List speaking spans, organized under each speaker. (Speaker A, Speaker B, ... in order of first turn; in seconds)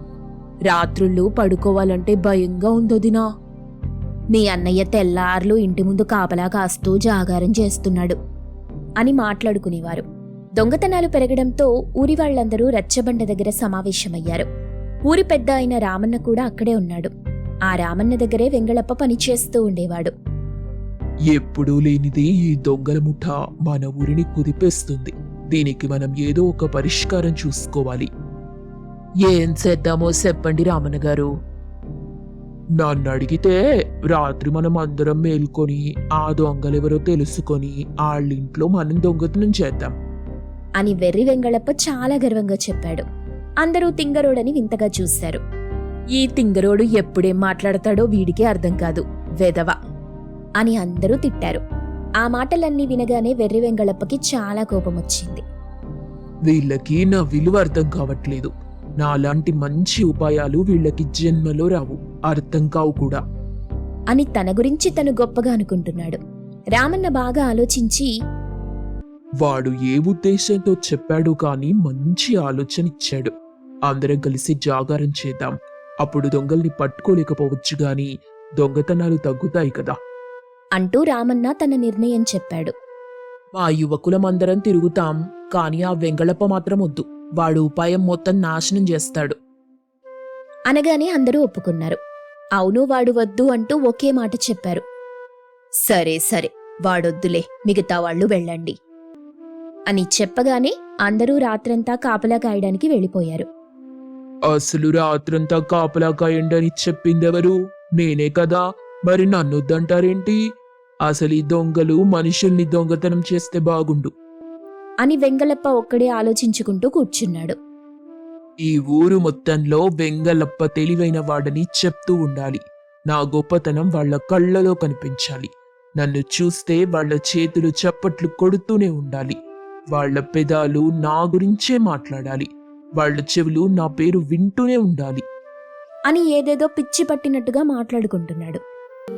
Speaker A: 0.7-3.3, 4.3-8.2, 9.0-10.1, 10.6-14.5, 15.1-17.1, 17.7-20.1, 40.8-43.1, 43.6-45.4, 46.1-49.8, 50.6-51.6, 52.2-55.4, 64.1-66.2, 66.8-68.1, 80.8-82.7, 90.7-92.0, 92.6-94.8, 95.9-98.8, 99.9-103.5, 115.0-117.6, 136.1-138.6
Speaker B: 21.3-28.1, 29.2-31.3, 32.8-40.0, 56.5-63.2, 69.4-73.3, 73.9-80.0, 83.6-89.4, 104.5-110.4, 111.0-114.1, 118.6-129.4, 129.9-135.2